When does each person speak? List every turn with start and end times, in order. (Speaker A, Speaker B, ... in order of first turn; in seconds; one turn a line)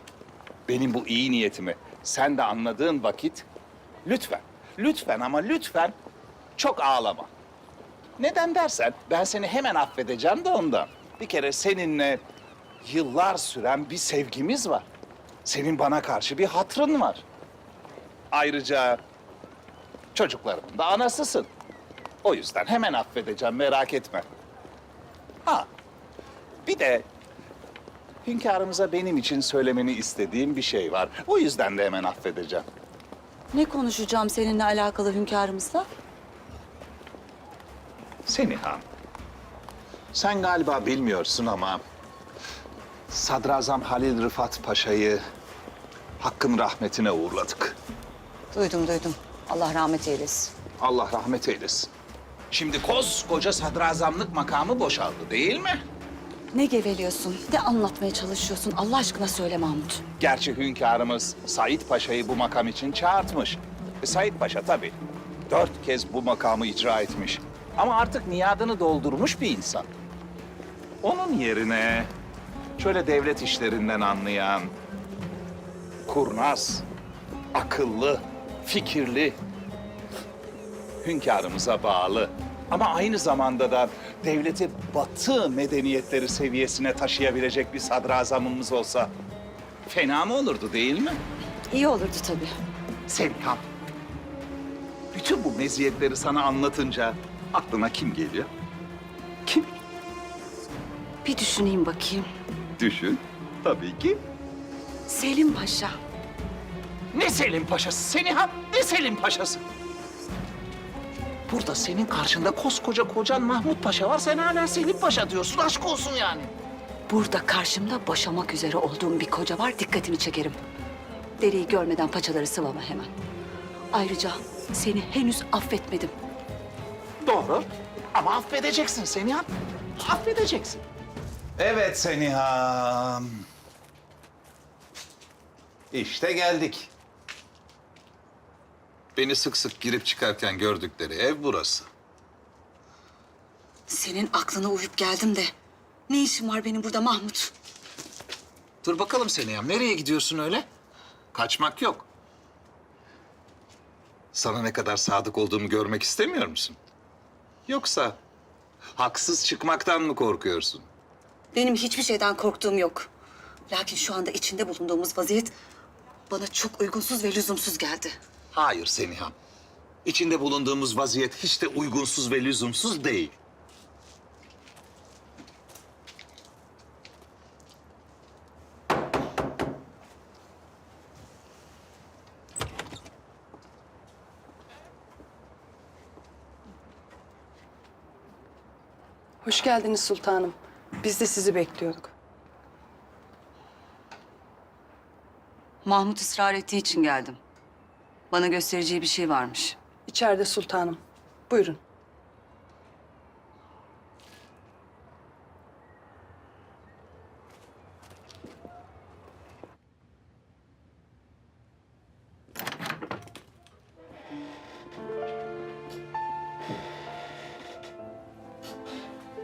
Speaker A: 0.7-3.5
Speaker A: 4.0-5.9
Speaker A: 6.6-7.3
Speaker A: 8.2-12.2
Speaker A: 12.8-14.9
Speaker A: 15.4-17.2
Speaker A: 18.3-19.0
Speaker A: 20.1-21.5
Speaker A: 22.2-24.2
Speaker A: 26.6-27.1
Speaker A: 28.2-32.6
Speaker B: 33.5-35.9
Speaker A: 38.2-38.8
Speaker A: 40.1-41.8
Speaker A: 43.1-45.2
Speaker A: 46.2-47.8
Speaker B: 48.5-50.5
Speaker A: 50.8-51.9
Speaker A: 52.5-55.8
Speaker B: 56.5-60.0
Speaker A: 60.2-65.0
Speaker A: 65.5-69.9
Speaker A: 71.0-72.1
Speaker A: 72.8-74.7
Speaker A: 76.0-76.8
Speaker A: 77.5-79.4
Speaker A: 81.0-89.1
Speaker A: 89.9-91.2
Speaker B: 91.7-92.6
Speaker A: 93.1-93.6
Speaker A: 95.1-98.5
Speaker B: 101.2-102.3
Speaker A: 102.8-104.2
Speaker B: 105.1-106.0
Speaker A: 107.1-109.6
Speaker A: 111.5-116.5
Speaker B: 117.1-120.6
Speaker B: 121.4-123.1
Speaker B: 123.9-126.1
Speaker A: 127.2-130.8
Speaker A: 131.6-133.4
Speaker A: 135.9-136.9
Speaker A: 139.1-141.9
Speaker B: 143.9-145.5
Speaker B: 146.1-147.5
Speaker A: 148.8-150.7
Speaker A: 151.3-152.1
Speaker A: 154.3-156.8
Speaker A: 157.7-158.2
Speaker A: 158.9-160.9
Speaker B: 161.5-163.1
Speaker B: 163.7-165.5
Speaker B: 166.3-168.1
Speaker A: 168.5-169.3
Speaker A: 170.0-173.3
Speaker C: 189.4-192.1
Speaker B: 195.8-197.4
Speaker B: 198.3-199.8
Speaker C: 200.1-201.8